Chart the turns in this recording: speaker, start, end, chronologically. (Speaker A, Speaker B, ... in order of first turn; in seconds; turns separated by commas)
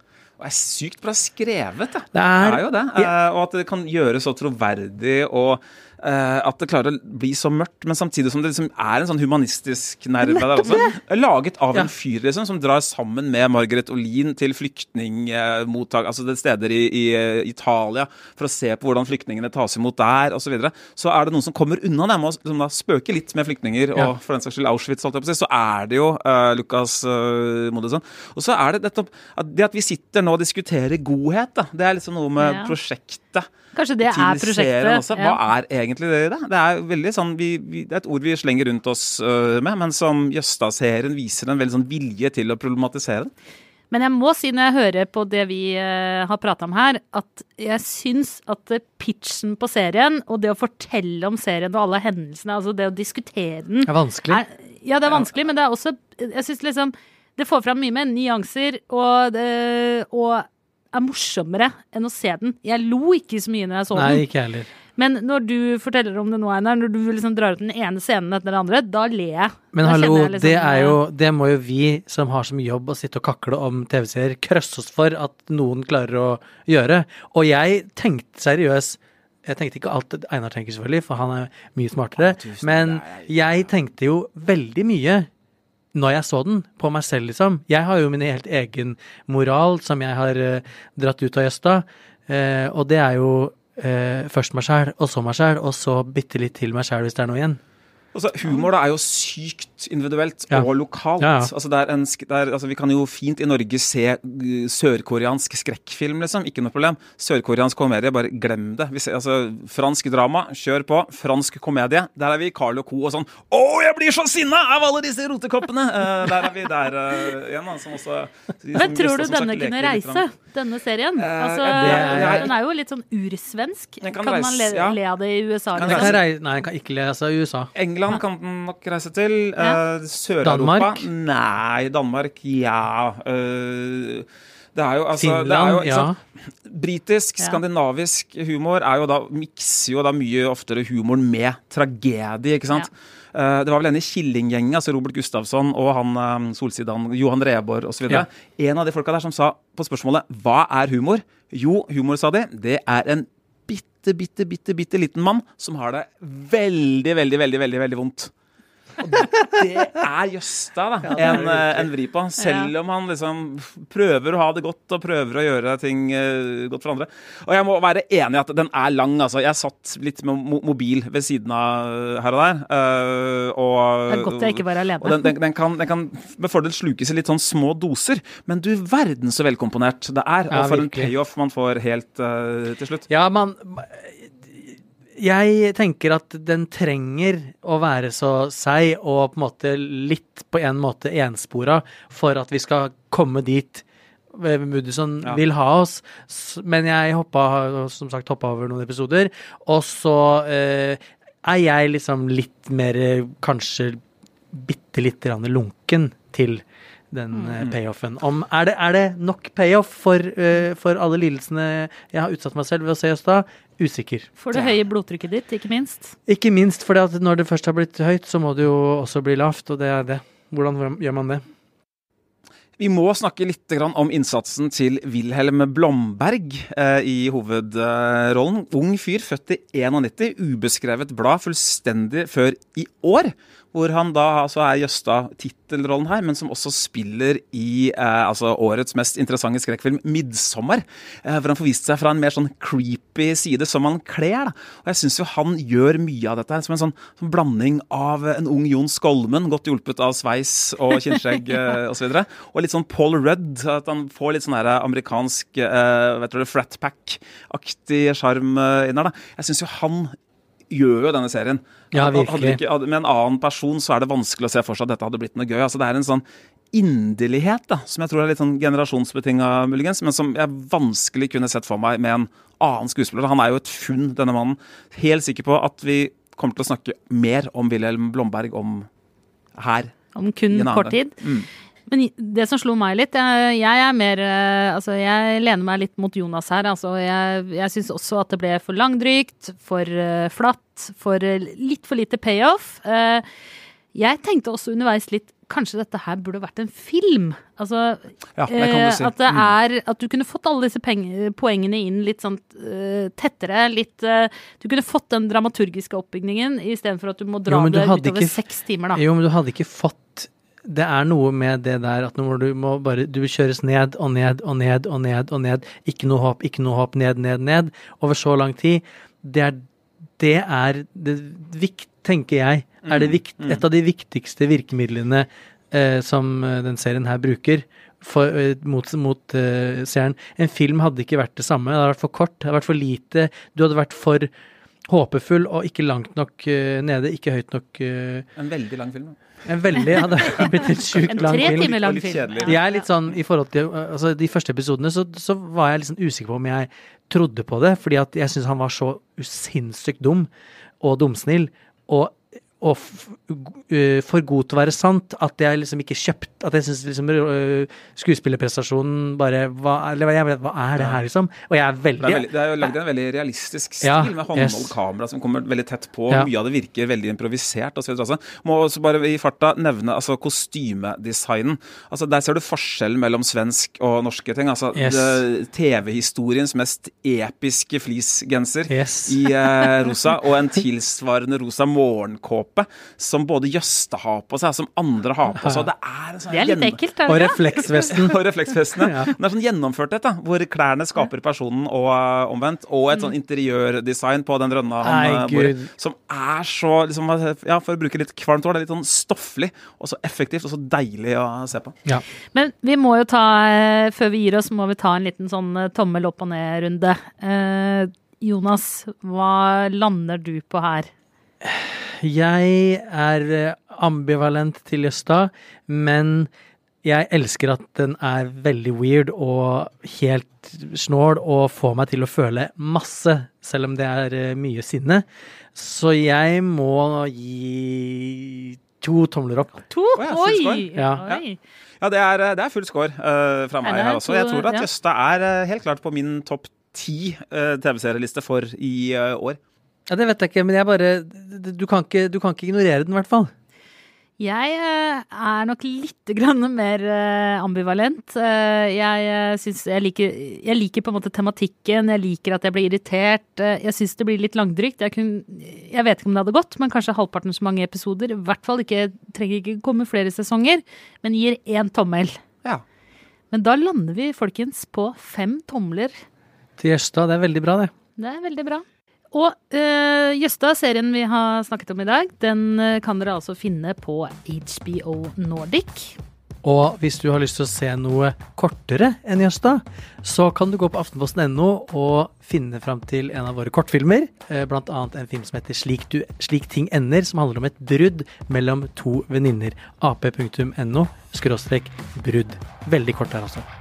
Speaker A: 0.4-33.5, Speaker B: 2.1-3.1, Speaker B: 10.2-10.9, Speaker C: 32.4-32.8, Speaker C: 33.8-35.4, Speaker A: 34.0-43.3, Speaker C: 43.9-64.2, Speaker B: 53.9-54.4, Speaker B: 63.9-64.7, Speaker C: 65.0-71.0, Speaker B: 69.7-85.3, Speaker A: 82.2-83.7, Speaker B: 85.9-97.6, Speaker A: 98.1-120.2, Speaker B: 101.2-101.5, Speaker C: 118.8-126.2, Speaker A: 121.2-122.6, Speaker B: 121.8-122.5, Speaker A: 124.0-125.0, Speaker A: 125.8-126.2, Speaker B: 125.8-127.7, Speaker A: 127.8-136.1, Speaker B: 130.4-131.1, Speaker B: 135.1-136.2, Speaker A: 136.7-158.3, Speaker A: 159.0-183.1, Speaker B: 161.0-161.9, Speaker C: 162.4-162.7, Speaker C: 174.1-175.3, Speaker B: 180.5-181.1, Speaker B: 183.1-204.0, Speaker B: 204.5-214.3, Speaker C: 214.4-216.2, Speaker B: 216.3-221.4, Speaker A: 222.8-260.1, Speaker A: 260.7-278.9, Speaker B: 261.9-262.6, Speaker A: 279.6-279.9, Speaker C: 280.1-281.1, Speaker A: 280.5-281.5, Speaker C: 281.9-293.2, Speaker C: 293.9-309.0, Speaker A: 298.4-299.5, Speaker B: 307.5-308.4, Speaker B: 308.9-319.6, Speaker B: 320.2-334.3, Speaker A: 322.8-323.6, Speaker B: 334.9-338.3, Speaker A: 338.4-339.2, Speaker B: 339.5-341.8, Speaker A: 339.8-342.6, Speaker C: 341.2-342.8, Speaker B: 342.4-350.3, Speaker B: 350.8-362.7, Speaker A: 362.0-386.8, Speaker B: 363.8-364.7, Speaker B: 374.7-375.2, Speaker B: 378.7-379.2, Speaker B: 385.4-385.7, Speaker C: 386.3-387.8, Speaker B: 387.1-388.2, Speaker A: 387.7-401.7, Speaker B: 388.8-389.1, Speaker B: 394.8-395.7, Speaker C: 402.3-410.9, Speaker B: 411.4-416.3, Speaker B: 416.8-429.6, Speaker C: 429.7-431.4, Speaker A: 430.0-431.2, Speaker A: 431.8-439.4, Speaker C: 433.6-434.7, Speaker B: 439.9-443.3, Speaker C: 444.2-462.2, Speaker C: 463.3-465.9, Speaker B: 466.6-467.7, Speaker C: 468.0-476.0, Speaker B: 476.4-493.5